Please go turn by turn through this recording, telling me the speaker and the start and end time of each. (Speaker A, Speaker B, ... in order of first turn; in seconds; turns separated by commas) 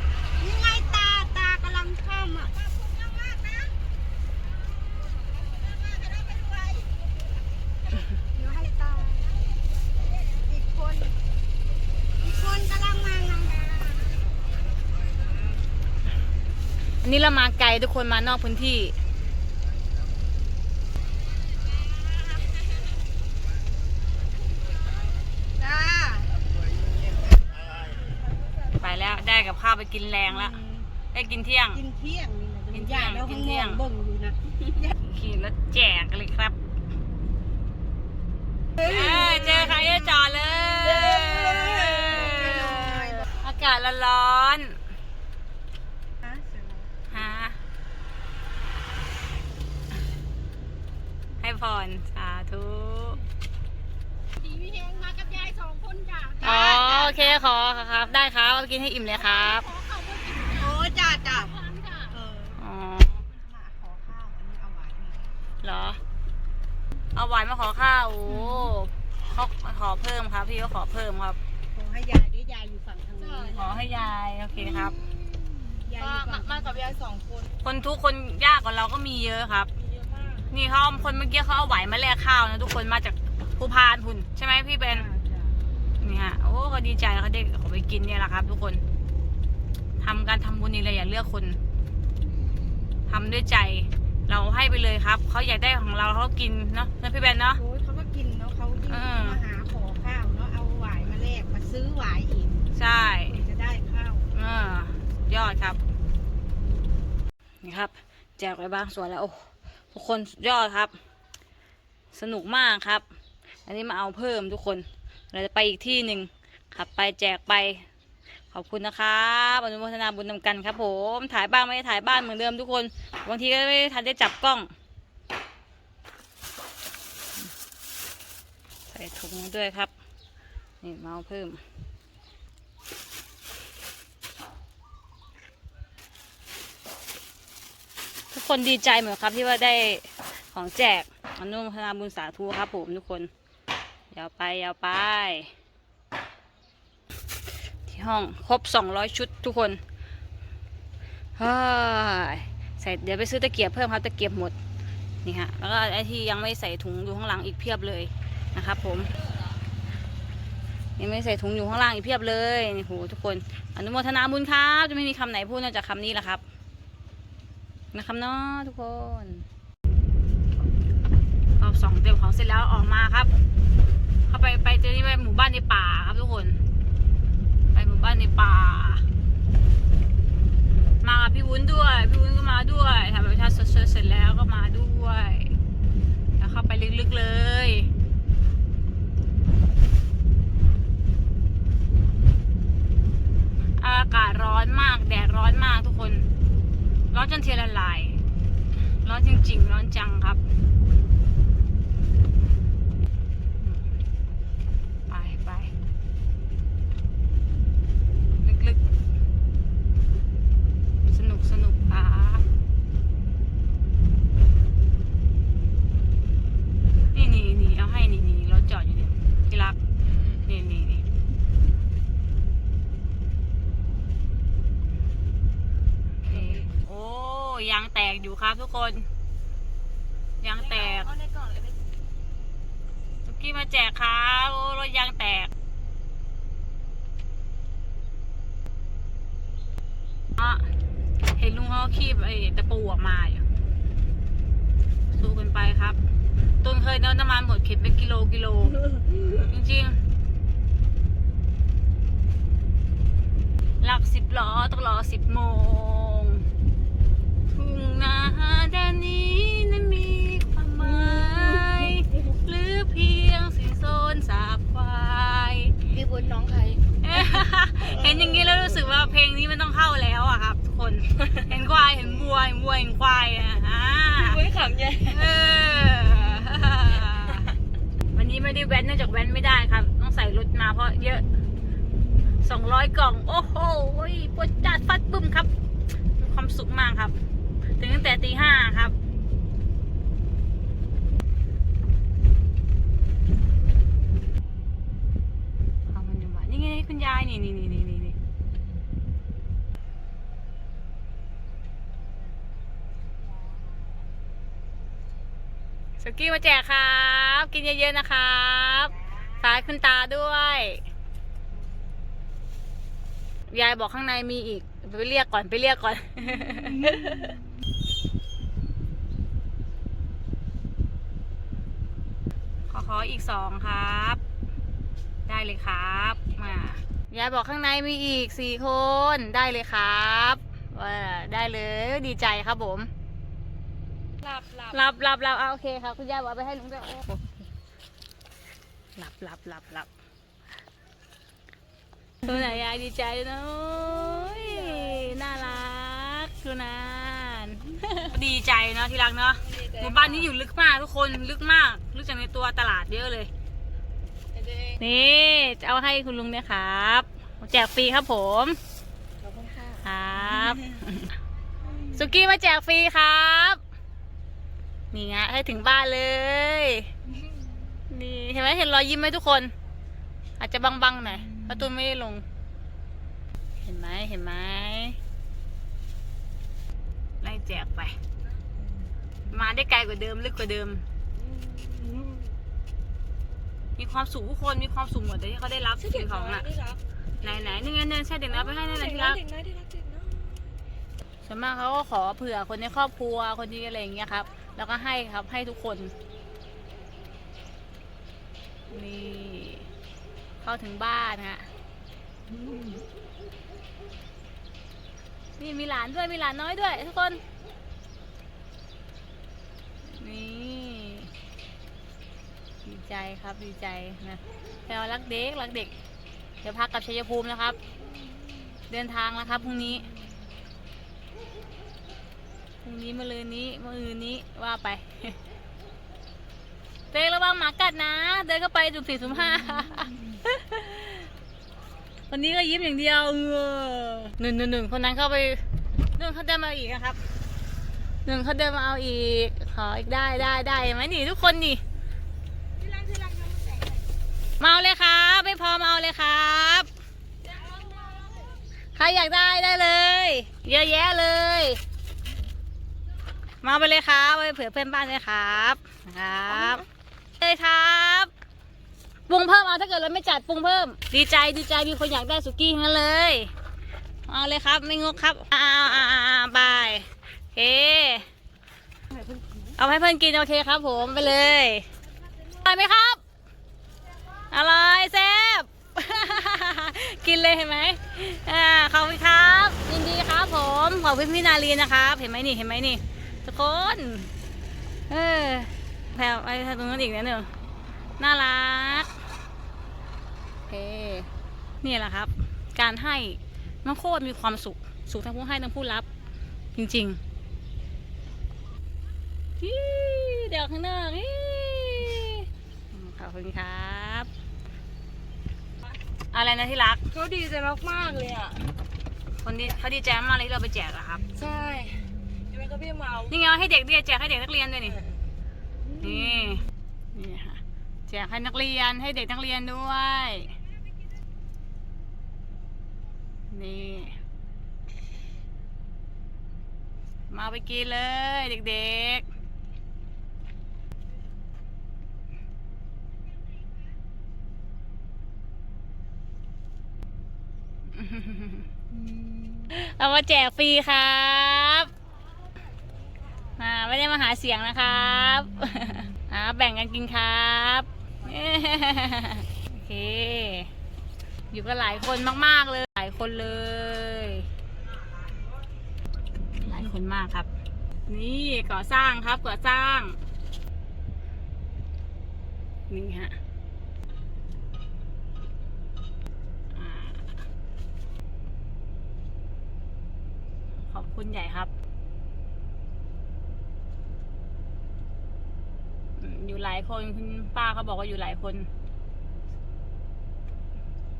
Speaker A: 0.3-3.7, Speaker A: 5.3-7.0, Speaker A: 8.3-9.4, Speaker A: 10.3-11.2, Speaker A: 12.2-14.3, Speaker B: 17.0-18.9, Speaker A: 25.6-26.4, Speaker B: 28.8-30.6, Speaker A: 30.3-30.9, Speaker B: 31.1-31.8, Speaker A: 31.7-34.9, Speaker B: 32.7-33.8, Speaker B: 35.0-36.5, Speaker A: 38.8-40.1, Speaker B: 38.8-44.8, Speaker A: 40.7-43.3, Speaker A: 46.2-46.9, Speaker B: 47.1-47.6, Speaker B: 51.4-53.2, Speaker A: 54.4-57.4, Speaker B: 56.4-59.6, Speaker A: 59.1-62.6, Speaker C: 61.3-61.9, Speaker B: 62.6-63.2, Speaker A: 63.1-65.5, Speaker B: 65.6-66.0, Speaker B: 67.1-71.4, Speaker A: 71.7-73.7, Speaker C: 73.2-73.9, Speaker B: 73.5-75.0, Speaker C: 75.8-77.5, Speaker A: 75.8-76.9, Speaker B: 77.6-79.7, Speaker C: 79.8-80.5, Speaker B: 80.5-85.1, Speaker A: 84.9-85.6, Speaker B: 86.0-88.8, Speaker B: 90.0-91.6, Speaker B: 93.1-97.6, Speaker A: 97.6-102.6, Speaker B: 98.9-99.4, Speaker B: 102.7-103.4, Speaker A: 103.2-104.3, Speaker B: 104.3-105.8, Speaker B: 107.6-110.9, Speaker B: 112.1-113.0, Speaker B: 113.7-117.8, Speaker B: 118.5-124.7, Speaker B: 128.9-129.9, Speaker B: 130.8-131.6, Speaker B: 138.3-143.3, Speaker B: 144.1-145.5, Speaker B: 147.9-149.8, Speaker B: 151.4-154.5, Speaker B: 155.2-159.1, Speaker B: 161.0-166.4, Speaker B: 167.9-169.4, Speaker B: 171.6-173.3, Speaker B: 174.3-176.6, Speaker B: 177.7-179.0, Speaker B: 181.0-185.5, Speaker B: 186.4-187.9, Speaker B: 193.8-196.2, Speaker B: 197.1-198.2, Speaker B: 199.0-200.4, Speaker B: 205.1-205.7, Speaker B: 208.4-208.8, Speaker B: 211.0-212.4, Speaker B: 217.1-219.8, Speaker B: 220.3-221.0, Speaker B: 226.3-229.1, Speaker C: 226.3-226.6, Speaker B: 230.4-231.1, Speaker C: 230.8-231.7, Speaker B: 233.2-235.5, Speaker B: 240.4-240.7, Speaker B: 241.4-243.4, Speaker B: 245.1-246.0, Speaker B: 246.6-250.0, Speaker B: 253.8-256.4, Speaker B: 257.5-265.7, Speaker C: 265.9-266.6, Speaker B: 267.0-274.4, Speaker C: 274.1-275.3, Speaker B: 275.0-277.5, Speaker B: 278.1-281.2, Speaker B: 282.4-285.5, Speaker B: 286.2-287.1, Speaker B: 287.8-288.9, Speaker B: 295.9-298.1, Speaker B: 306.0-310.8, Speaker B: 313.5-317.3, Speaker B: 322.7-324.2, Speaker B: 325.3-332.9, Speaker C: 334.2-334.9, Speaker B: 334.7-337.3, Speaker B: 338.9-339.9, Speaker B: 342.2-353.3, Speaker C: 344.2-345.3, Speaker C: 349.4-350.3, Speaker C: 354.3-354.8, Speaker B: 354.8-358.6, Speaker C: 359.2-359.8, Speaker B: 359.8-361.1, Speaker B: 361.9-363.6, Speaker B: 364.9-366.9, Speaker B: 367.9-369.5, Speaker B: 370.4-372.2, Speaker B: 373.6-375.0, Speaker B: 377.2-377.9, Speaker B: 379.3-380.8, Speaker C: 381.2-382.2, Speaker B: 383.8-386.5, Speaker C: 385.8-387.6, Speaker B: 387.2-389.2, Speaker C: 388.3-390.5, Speaker B: 391.2-395.9, Speaker B: 398.7-399.6, Speaker B: 400.4-401.5, Speaker B: 405.4-407.2, Speaker B: 409.9-411.1, Speaker B: 412.6-415.7, Speaker B: 416.4-417.6, Speaker B: 418.7-419.9, Speaker B: 422.6-425.2, Speaker B: 426.9-431.0, Speaker B: 432.1-435.4, Speaker B: 435.9-437.0, Speaker B: 438.0-441.6, Speaker A: 442.6-443.8, Speaker B: 444.4-446.7, Speaker B: 448.8-451.6, Speaker B: 453.4-456.6, Speaker B: 457.2-458.1, Speaker B: 459.1-463.3, Speaker B: 464.1-468.1, Speaker B: 469.6-471.6, Speaker B: 472.4-473.0, Speaker B: 474.3-484.1, Speaker B: 484.9-487.3, Speaker B: 488.0-488.9, Speaker B: 490.5-491.1, Speaker B: 491.6-495.9, Speaker B: 496.5-497.0, Speaker B: 499.4-504.1, Speaker B: 506.1-506.8, Speaker C: 506.9-508.5, Speaker B: 509.2-511.0, Speaker C: 511.1-513.1, Speaker B: 513.1-514.8, Speaker C: 514.6-515.0, Speaker B: 515.8-516.4, Speaker B: 516.9-520.3, Speaker B: 523.3-523.9, Speaker B: 527.1-529.0, Speaker B: 537.7-538.5, Speaker B: 539.5-541.7, Speaker B: 543.4-550.5, Speaker B: 551.3-554.3, Speaker B: 556.4-557.3, Speaker B: 557.9-560.0, Speaker B: 562.7-563.1, Speaker B: 566.5-567.0, Speaker B: 570.7-571.5, Speaker B: 576.0-578.5